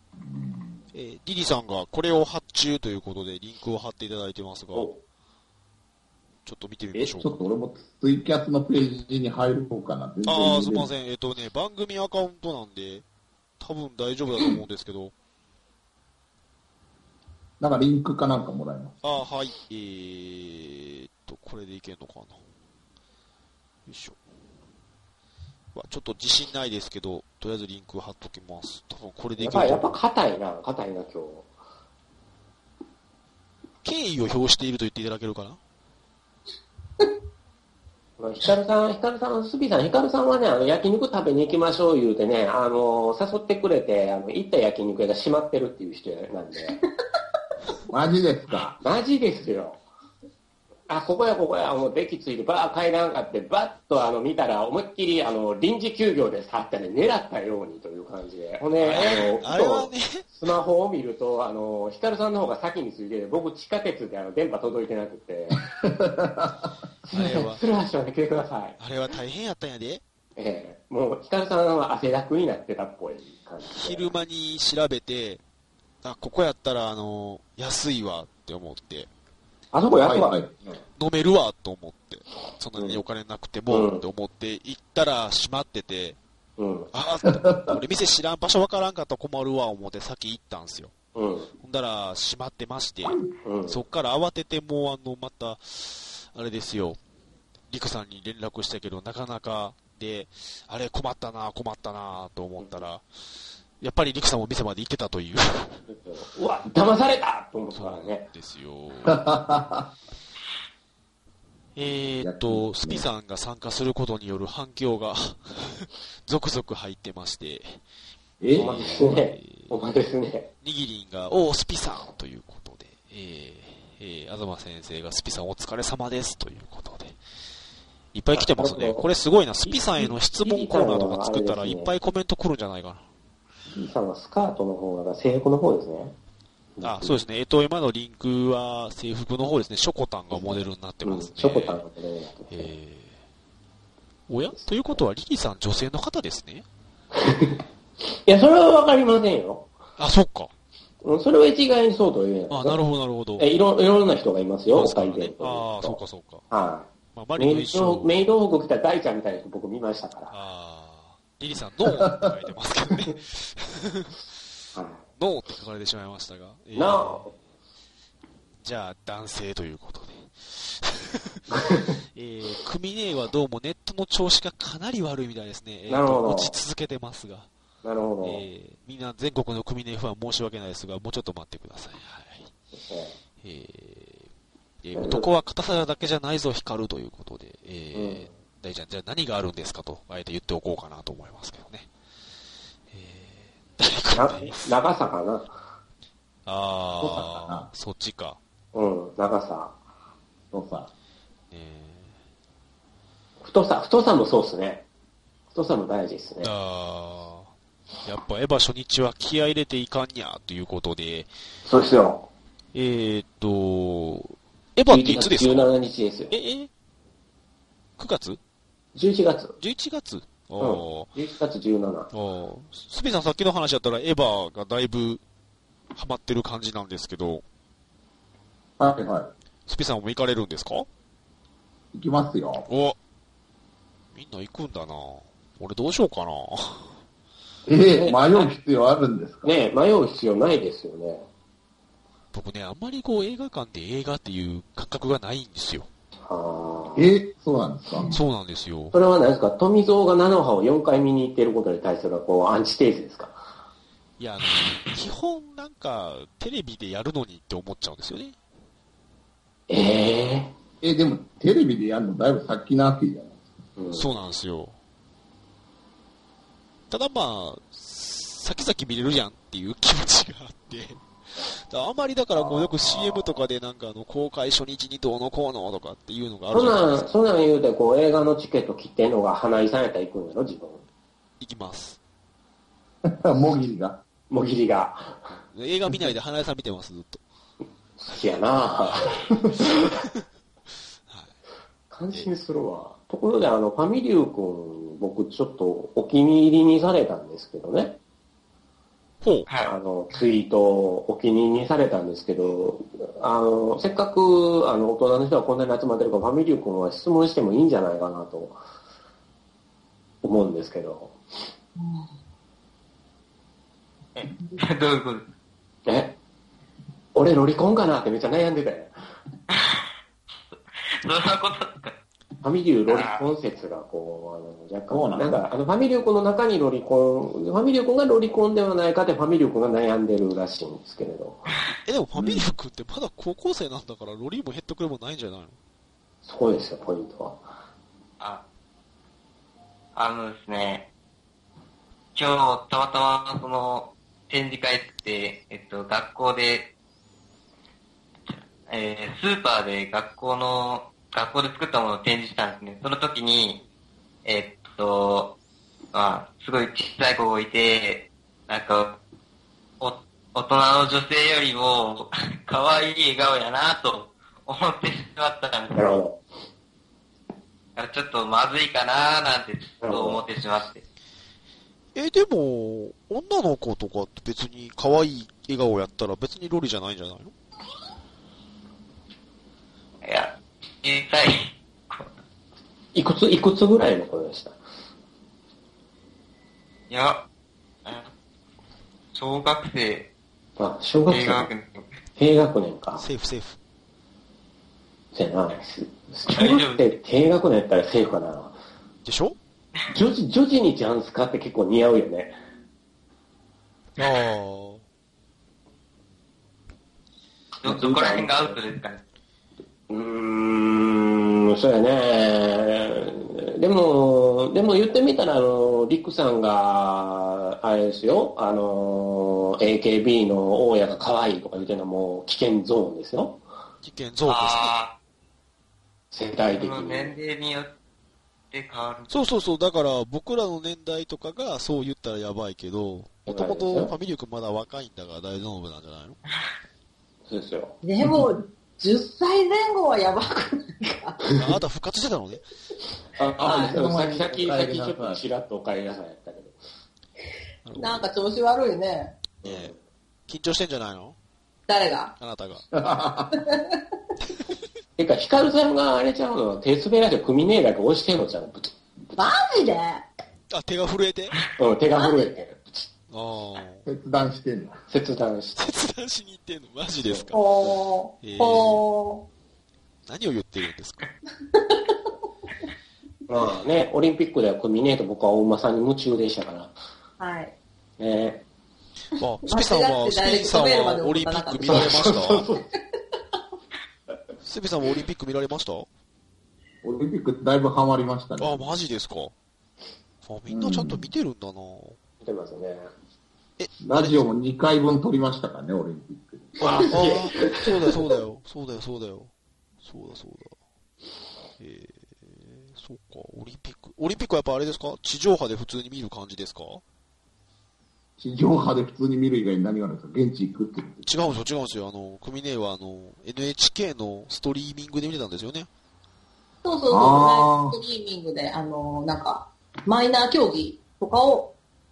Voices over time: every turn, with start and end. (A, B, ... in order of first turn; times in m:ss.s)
0:00.2-0:00.8 A
0:00.9-0:04.9 B
0:06.4-0:07.4 B
0:07.0-0:10.9 A
0:10.2-0:13.0 B
0:13.6-0:15.1 B
0:17.6-0:19.0 A
0:19.0-0:22.4 B
0:23.9-0:24.2 B
0:25.7-0:30.0 B
0:29.4-0:31.5 C
0:33.8-0:35.6 B
0:38.2-0:46.8 C
0:47.9-0:48.7 A
0:48.5-0:49.8 C
0:50.9-1:05.6 C
0:58.8-1:00.3 B
1:05.8-1:06.7 A
1:07.1-1:08.8 C
1:07.1-1:07.6 B
1:08.8-1:10.0 B
1:10.4-1:14.1 C
1:13.7-1:15.4 B
1:16.0-1:19.1 B
1:19.7-1:20.4 C
1:19.9-1:20.6 A
1:21.0-1:26.2 B
1:22.8-1:23.0 C
1:23.7-1:24.0 C
1:26.6-1:26.9 C
1:26.9-1:31.0 B
1:27.4-1:27.7 A
1:31.1-1:31.5 C
1:31.6-1:37.0 B
1:33.4-1:33.8 C
1:37.7-1:43.0 B
1:42.6-1:42.9 C
1:43.8-1:45.8 B
1:45.9-1:48.3 C
1:47.7-1:49.3 B
1:49.1-1:49.9 A
1:51.8-1:57.8 B
1:52.2-1:53.1 A
1:58.4-1:59.2 A
1:58.5-1:59.7 B
1:58.6-2:00.5 C
2:00.6-2:07.2 B
2:08.1-2:13.1 B
2:08.3-2:09.1 C
2:09.6-2:11.9 C
2:13.7-2:16.1 C
2:16.8-2:17.2 C
2:16.8-2:21.8 B
2:20.3-2:22.7 C
2:22.5-2:23.2 B
2:24.3-2:26.6 B
2:24.5-2:25.0 C
2:27.1-2:29.7 C
2:30.0-2:30.5 B
2:31.0-2:32.8 C
2:32.5-2:33.5 B
2:33.4-2:36.0 C
2:34.7-2:36.5 B
2:36.5-2:40.4 C
2:37.1-2:38.1 B
2:40.3-2:44.2 B
2:44.8-2:45.0 C
2:45.2-2:47.3 B
2:46.8-2:47.3 C
2:48.6-2:57.5 B
2:51.5-2:52.0 C
2:55.9-2:56.6 C
2:57.8-2:58.4 C
2:58.2-3:02.5 B
3:02.8-3:03.2 C
3:03.4-3:04.3 B
3:04.8-3:11.9 B
3:05.0-3:05.3 C
3:07.9-3:08.4 C
3:12.9-3:14.8 B
3:14.1-3:15.5 C
3:16.5-3:18.4 B
3:17.0-3:17.7 A
3:18.7-3:19.8 C
3:20.5-3:20.9 A
3:21.5-3:22.1 B
3:23.4-3:24.8 C
3:25.5-3:26.5 C
3:26.4-3:27.5 B
3:28.0-3:31.3 B
3:31.6-3:32.3 C
3:32.7-3:35.7 B
3:34.9-3:36.3 C
3:36.3-3:36.7 B
3:38.0-3:38.4 B
3:39.0-3:39.6 C
3:39.6-3:41.1 B
3:40.6-3:42.1 C
3:42.1-3:45.2 B
3:45.9-3:47.4 B
3:48.8-3:49.3 A
3:49.7-3:50.9 B
3:51.9-3:52.6 A
3:52.6-3:53.0 B
3:54.1-3:56.9 B
3:57.7-3:59.5 A
3:58.0-3:58.5 C
3:59.4-4:01.3 C
4:02.3-4:05.9 B
4:06.3-4:07.1 C
4:07.0-4:08.1 A
4:08.1-4:09.0 B
4:08.9-4:13.4 C
4:14.2-4:18.4 B
4:19.7-4:20.5 C
4:20.8-4:23.4 A
4:23.8-4:24.1 C
4:23.9-4:24.8 B
4:26.9-4:37.1 B
4:32.3-4:33.4 C
4:36.5-4:40.8 C
4:41.4-4:42.0 B
4:43.0-4:44.0 A
4:44.3-4:45.3 C
4:45.5-4:47.2 B
4:48.0-4:49.9 C
4:51.1-4:51.4 B
4:51.9-4:58.0 C
4:59.2-4:59.5 B
4:59.5-4:59.7 D
4:59.6-5:08.6 C
5:10.2-5:11.2 C
5:11.8-5:12.0 E
5:14.1-5:15.2 D
5:15.9-5:16.1 C
5:17.1-5:18.9 C
5:19.5-5:19.9 D
5:20.5-5:22.0 D
5:22.4-5:31.4 C
5:22.9-5:23.2 D
5:24.9-5:25.4 A
5:31.9-5:35.6 B
5:32.2-5:32.4 A
5:36.2-5:37.5 C
5:40.0-5:40.8 D
5:42.1-5:46.6 D
5:48.3-5:53.6 D
5:54.2-5:55.3 D
5:55.9-5:59.0 D
5:59.8-6:06.0 D
6:05.7-6:06.2 C
6:07.8-6:10.8 D
6:09.8-6:10.2 C
6:12.0-6:17.3 B
6:20.0-6:22.1 D
6:23.0-6:24.6 C
6:26.9-6:27.2 D
6:29.1-6:30.0 D
6:30.6-6:31.5 C
6:31.1-6:31.9 D
6:32.2-6:33.0 C
6:33.0-6:33.6 B
6:35.1-6:38.6 C
6:36.3-6:36.9 D
6:39.0-6:39.4 B
6:39.9-6:42.4 C
6:44.0-6:44.8 B
6:47.6-6:49.0 D
6:47.6-6:48.6 C
6:49.9-7:03.4 C
7:03.8-7:04.7 B
7:04.3-7:04.9 D
7:06.1-7:07.2 C
7:06.5-7:07.7 D
7:08.5-7:09.1 D
7:09.1-7:16.2 B
7:13.3-7:13.9 C
7:17.3-7:17.8 C
7:17.8-7:21.2 E
7:21.3-7:22.4 B
7:23.2-7:26.6 C
7:23.4-7:25.2 A
7:27.6-7:28.1 B
7:27.8-7:29.2 E
7:29.4-7:29.7 B
7:29.4-7:29.8 C
7:30.3-7:31.2 B
7:31.7-7:32.1 E
7:32.2-7:32.6 B
7:32.7-7:33.4 A
7:33.3-7:33.8 E
7:35.0-7:38.8 C
7:39.2-7:40.0 E
7:40.5-7:41.4 B
7:41.6-7:42.9 C
7:42.0-7:42.3 E
7:43.1-7:43.9 B
7:43.9-7:44.8 A
7:44.9-7:45.6 C
7:45.6-7:47.4 B
7:47.0-7:47.7 C
7:47.3-7:49.2 E
7:48.2-7:48.8 B
7:50.0-7:51.0 B
7:51.5-7:51.9 E
7:53.3-7:56.7 C
7:57.2-7:57.5 E
7:58.0-7:58.4 C
7:59.2-8:02.5 B
7:59.4-8:01.9 E
8:01.6-8:02.6 C
8:04.4-8:05.9 B
8:06.8-8:08.8 A
8:08.4-8:09.3 B
8:10.2-8:12.0 B
8:10.5-8:11.1 A
8:12.2-8:12.9 C
8:13.6-8:14.2 B
8:13.8-8:16.6 A
8:16.6-8:17.7 C
8:16.7-8:19.3 B
8:19.8-8:20.6 B
8:21.6-8:26.8 B
8:28.2-8:31.1 A
8:31.0-8:35.7 B
8:36.6-8:41.5 E
8:36.9-8:37.8 A